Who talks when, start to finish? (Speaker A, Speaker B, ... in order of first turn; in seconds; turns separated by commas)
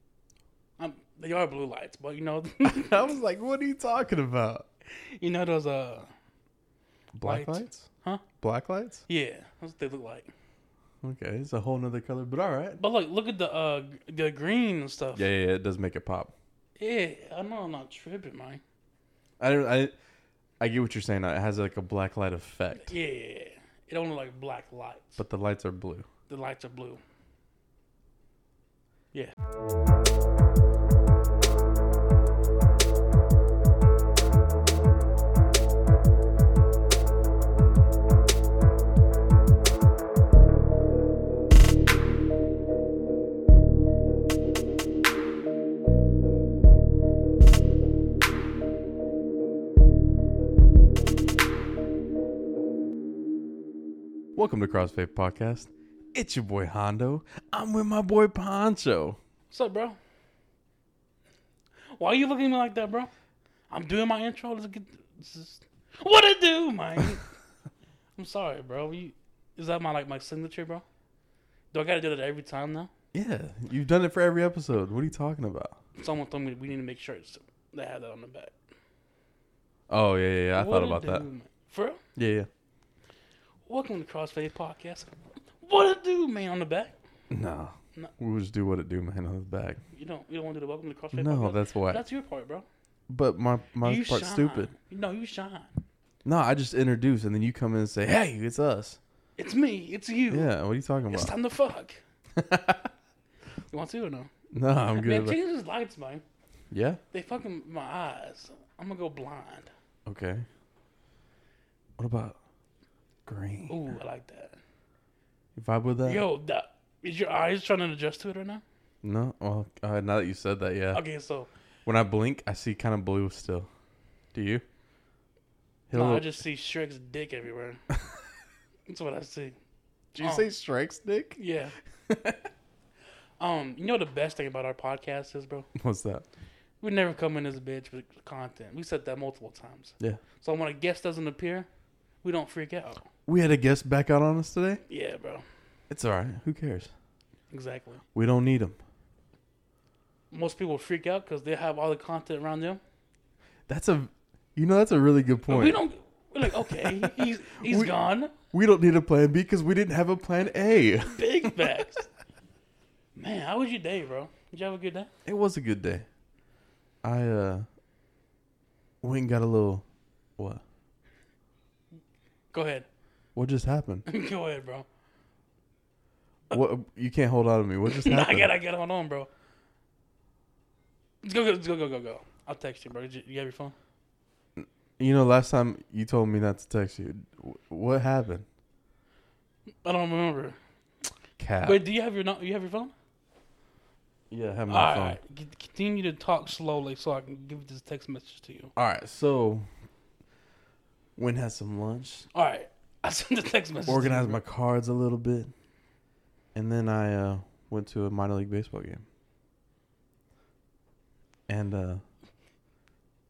Speaker A: 0.8-3.1, Speaker B: 2.6-4.7, Speaker A: 4.9-6.1, Speaker B: 7.1-7.8, Speaker A: 7.2-8.2, Speaker B: 8.4-9.0, Speaker A: 9.1-10.3, Speaker B: 11.0-12.8, Speaker A: 12.8-15.3, Speaker B: 15.1-16.3, Speaker A: 16.8-18.6, Speaker B: 19.4-19.9, Speaker B: 20.6-22.9, Speaker A: 22.8-25.2, Speaker B: 25.2-26.1, Speaker A: 26.3-27.0, Speaker B: 54.3-59.2, Speaker A: 59.5-60.0, Speaker A: 61.9-63.1, Speaker A: 63.7-67.3, Speaker A: 68.2-70.8, Speaker A: 71.7-72.9, Speaker B: 73.1-75.8, Speaker A: 76.0-78.5, Speaker B: 79.9-81.2, Speaker A: 80.5-82.0, Speaker B: 82.2-82.5, Speaker A: 83.7-86.9, Speaker B: 87.3-89.8, Speaker A: 89.9-92.7, Speaker B: 91.1-92.0, Speaker B: 93.1-94.7, Speaker A: 93.8-95.7, Speaker B: 96.2-99.0, Speaker A: 99.4-100.5, Speaker B: 100.3-101.3, Speaker A: 101.1-102.0, Speaker B: 102.3-102.9, Speaker A: 103.7-104.3, Speaker B: 104.5-105.3, Speaker A: 104.9-106.2, Speaker B: 106.7-107.0, Speaker A: 107.1-109.7, Speaker B: 110.0-110.5, Speaker B: 112.0-112.4, Speaker B: 113.2-113.8, Speaker A: 113.7-114.6, Speaker B: 115.5-116.2, Speaker A: 116.0-118.6, Speaker B: 119.0-121.0, Speaker A: 120.9-121.5, Speaker B: 121.8-123.7, Speaker B: 124.3-124.6, Speaker B: 125.9-126.3, Speaker A: 125.9-127.8, Speaker A: 128.9-129.6, Speaker B: 130.1-131.4, Speaker A: 130.2-130.5, Speaker A: 131.3-131.7, Speaker B: 132.1-132.5, Speaker A: 133.4-135.7, Speaker B: 135.7-136.2, Speaker A: 136.8-141.7, Speaker A: 142.2-143.0, Speaker B: 143.3-144.8, Speaker A: 144.9-145.4, Speaker B: 145.9-146.9, Speaker A: 147.5-148.0, Speaker B: 148.1-148.8, Speaker A: 150.3-152.8, Speaker B: 153.7-155.8, Speaker A: 155.5-158.3, Speaker B: 156.4-161.8, Speaker A: 161.0-162.1, Speaker A: 163.1-165.1, Speaker B: 165.2-166.1, Speaker B: 167.0-167.7, Speaker B: 169.0-169.8, Speaker B: 170.4-170.6, Speaker A: 172.5-172.8, Speaker B: 173.3-174.1, Speaker A: 174.1-174.8, Speaker B: 176.5-178.5, Speaker A: 177.9-179.3, Speaker A: 181.2-183.7, Speaker B: 184.6-188.4, Speaker A: 189.8-190.6, Speaker B: 191.4-191.8, Speaker A: 191.6-192.9, Speaker B: 194.3-195.2, Speaker A: 194.7-198.7, Speaker B: 198.8-199.7, Speaker B: 201.2-202.2, Speaker A: 202.3-204.4, Speaker B: 203.9-205.5, Speaker B: 206.5-209.0, Speaker B: 211.5-212.0